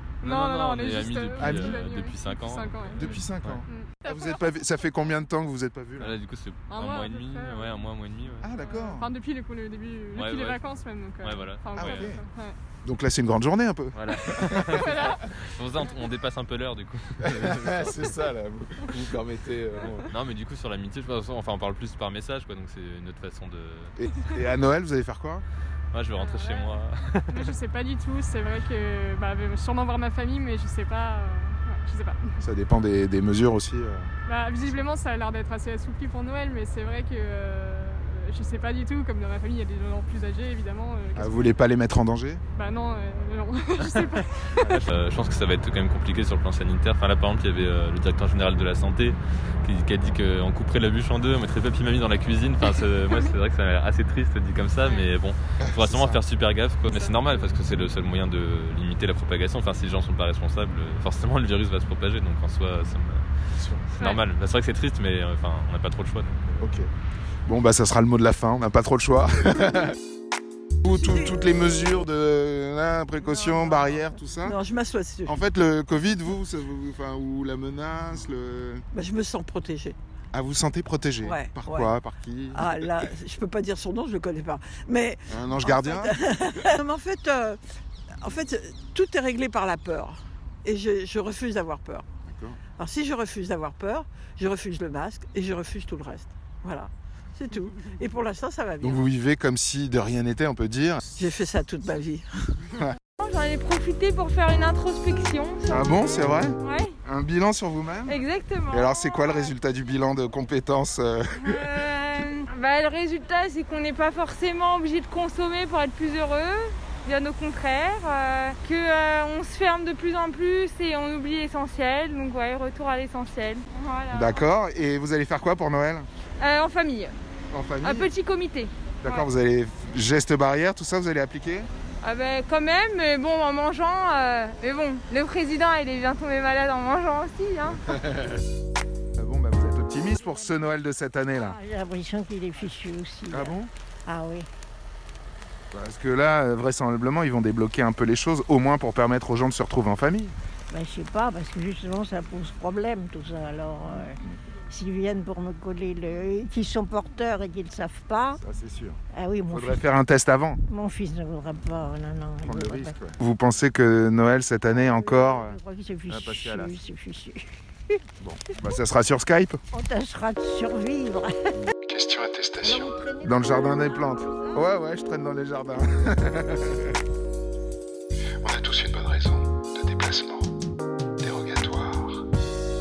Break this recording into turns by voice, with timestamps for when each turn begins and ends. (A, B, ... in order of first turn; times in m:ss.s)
0:00.2-0:03.6 A
0:00.2-0:04.9 B
0:01.4-0:01.8 C
0:03.0-0:06.2 C
0:06.0-0:08.6 A
0:06.7-0:07.8 B
0:08.4-0:09.1 C
0:08.6-0:12.6 B
0:10.1-0:12.2 A
0:11.8-0:12.2 C
0:12.8-0:14.9 C
0:13.9-0:18.3 A
0:14.8-0:15.2 B
0:17.2-0:20.1 C
0:19.8-0:24.4 A
0:24.0-0:25.4 C
0:25.9-0:27.6 A
0:26.2-0:26.8 B
0:27.3-0:32.4 B
0:32.4-0:34.1 C
0:34.3-0:41.6 B
0:41.2-0:42.4 C
0:42.6-0:44.8 B
0:43.8-0:44.1 A
0:44.6-1:03.2 A
0:54.8-0:55.1 B
0:55.6-0:56.2 C
0:56.9-0:57.6 B
1:03.6-1:03.9 C
1:03.9-1:06.6 A
1:06.6-1:06.9 C
1:07.4-1:10.0 C
1:10.8-1:14.6 C
1:10.9-1:11.3 D
1:13.2-1:14.3 B
1:14.4-1:15.4 D
1:15.3-1:18.8 C
1:18.9-1:20.0 D
1:20.3-1:23.1 C
1:21.2-1:21.9 D
1:22.5-1:27.6 D
1:25.3-1:26.2 C
1:28.2-1:32.1 D
1:32.2-1:32.6 C
1:32.8-1:39.0 D
1:38.8-1:41.0 C
1:41.1-1:42.5 D
1:42.7-1:43.0 C
1:43.2-1:47.0 E
1:45.7-1:48.2 C
1:48.1-1:49.5 E
1:48.7-1:51.9 C
1:51.4-2:04.4 E
2:04.1-2:06.1 C
2:06.4-2:07.1 E
2:07.5-2:08.1 C
2:07.8-2:09.2 E
2:09.0-2:11.7 C
2:12.0-2:17.9 E
2:19.2-2:21.6 C
2:20.2-2:20.5 F
2:21.3-2:24.5 F
2:23.3-2:23.7 C
2:25.7-2:30.4 C
2:30.7-2:38.4 F
2:38.4-2:39.0 C
2:39.1-2:39.8 F
2:39.5-2:40.6 C
2:40.7-2:43.0 F
2:42.4-2:45.6 C
2:44.6-2:47.6 F
2:46.1-2:46.8 C
2:48.2-2:49.6 C
2:49.7-2:51.3 F
2:51.9-2:52.9 G
2:52.6-2:54.7 F
2:53.2-2:56.9 C
2:58.4-3:00.5 G
3:01.2-3:02.2 G